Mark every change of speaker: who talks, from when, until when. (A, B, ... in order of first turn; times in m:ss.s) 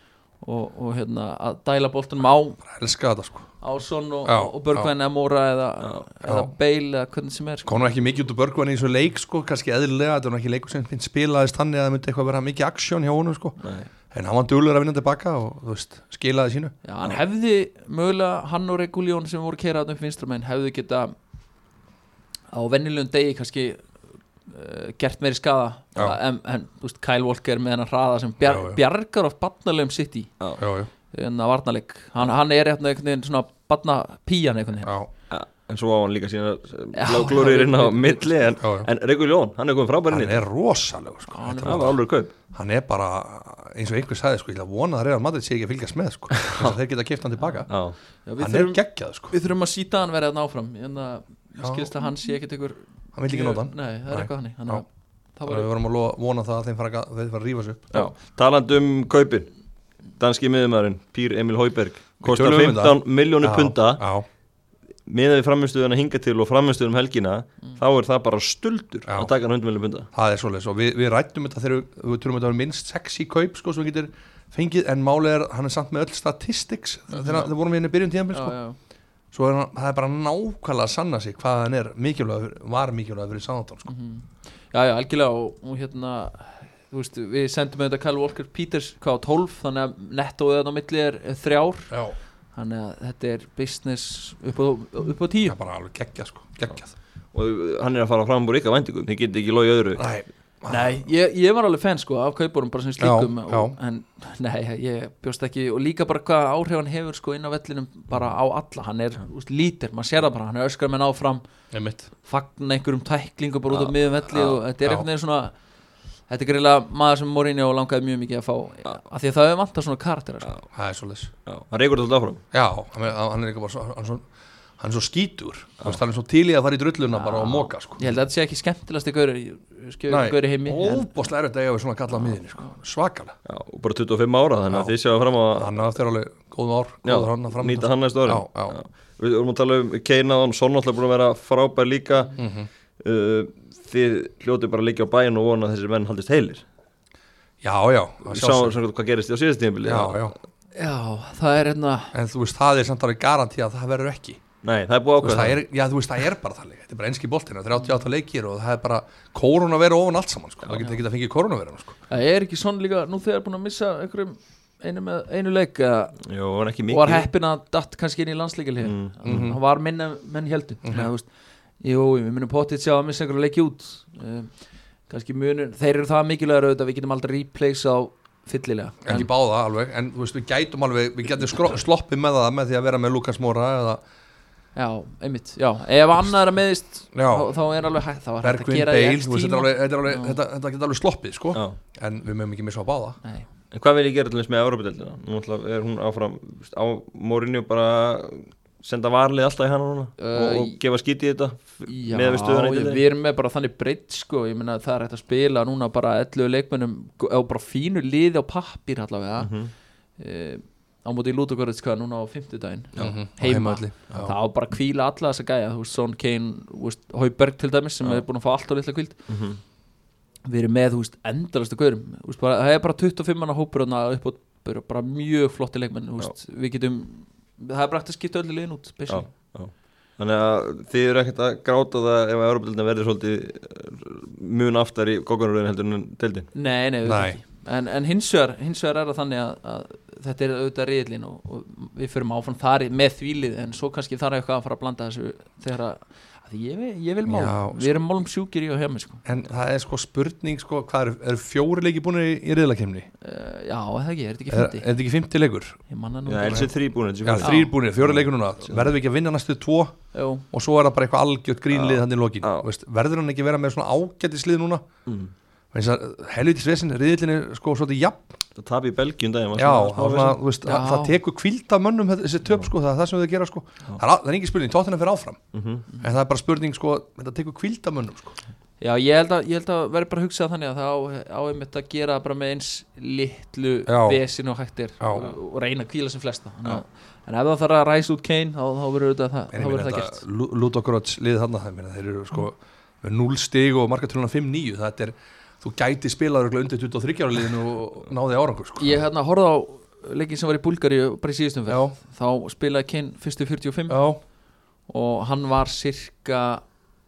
0:00.4-0:02.6 A
0:02.7-0:03.5 B
0:03.6-0:07.8 A
0:04.2-0:04.9 B
0:06.2-0:06.5 B
0:07.6-0:13.6 B
0:13.6-0:13.9 C
0:14.1-0:16.7 B
0:16.8-0:21.1 A
0:22.5-0:23.8 A
0:24.4-0:30.3 A
0:28.4-0:28.8 B
0:30.6-0:30.9 B
0:31.1-0:34.9 A
0:34.8-0:35.1 B
0:35.3-0:40.4 C
0:36.9-0:38.4 A
0:38.6-0:38.9 B
0:40.1-0:42.0 B
0:41.3-0:41.9 A
0:41.6-0:42.3 C
0:42.5-0:47.7 B
0:46.3-0:46.8 C
0:47.7-0:48.0 C
0:48.2-0:55.7 A
0:48.4-0:49.3 B
0:51.6-0:51.9 B
0:53.1-0:54.8 B
0:55.4-0:58.1 B
0:57.9-0:59.5 C
1:00.2-1:04.0 C
1:02.2-1:04.2 B
1:05.1-1:10.1 C
1:10.1-1:18.6 B
1:17.1-1:17.4 A
1:18.3-1:18.8 A
1:19.3-1:23.9 B
1:23.8-1:31.9 A
1:31.9-1:32.2 B
1:32.5-1:35.6 A
1:35.4-1:36.9 B
1:37.3-1:40.0 C
1:40.0-1:41.0 B
1:40.7-1:51.4 A
1:43.0-1:43.7 B
1:51.7-1:52.1 B
1:52.2-1:55.5 A
1:53.7-1:54.6 C
1:56.3-2:00.5 A
2:00.7-2:01.3 B
2:01.4-2:02.4 C
2:02.5-2:04.2 B
2:04.8-2:08.0 B
2:07.1-2:11.1 A
2:10.1-2:13.4 B
2:12.1-2:12.7 A
2:13.4-2:15.8 C
2:15.5-2:18.8 B
2:17.0-2:22.4 C
2:22.4-2:22.7 B
2:23.0-2:26.6 C
2:27.6-2:28.8 B
2:28.2-2:30.3 C
2:29.8-2:30.3 B
2:30.7-2:32.1 A
2:32.1-2:34.4 B
2:34.6-2:35.6 C
2:35.2-2:42.0 B
2:42.1-2:46.2 A
2:46.2-2:47.3 C
2:46.9-2:51.3 A
2:48.8-2:49.5 C
2:49.2-2:49.6 B
2:51.8-2:54.5 A
2:55.1-2:59.3 A
2:59.0-3:04.0 B
3:04.8-3:10.4 A
3:07.1-3:07.5 B
3:08.4-3:13.2 B
3:13.7-3:23.0 C
3:20.2-3:20.8 A
3:21.9-3:29.5 A
3:29.4-3:29.7 C
3:30.2-3:39.2 A
3:33.0-3:34.3 B
3:39.3-3:39.6 C
3:40.4-3:49.3 A
3:49.1-3:56.5 C
3:56.5-4:09.2 A
3:57.0-3:57.4 B
4:07.2-4:08.0 B
4:09.2-4:13.1 B
4:13.2-4:14.9 A
4:14.5-4:15.8 B
4:15.9-4:16.7 A
4:16.2-4:18.9 C
4:17.2-4:20.0 B
4:17.4-4:17.7 A
4:20.1-4:20.4 A
4:20.5-4:24.8 B
4:21.7-4:22.7 C
4:25.0-4:25.3 C
4:25.7-4:28.4 B
4:28.6-4:30.4 C
4:29.5-4:35.4 B
4:30.6-4:31.2 A
4:35.5-4:35.8 C
4:36.0-4:38.3 B
4:38.8-4:50.2 A
4:43.9-4:44.2 B
4:45.0-4:45.3 B
4:49.5-4:59.0 B
4:58.8-5:04.0 A
5:01.7-5:02.0 B
5:03.9-5:04.2 B
5:04.9-5:06.6 A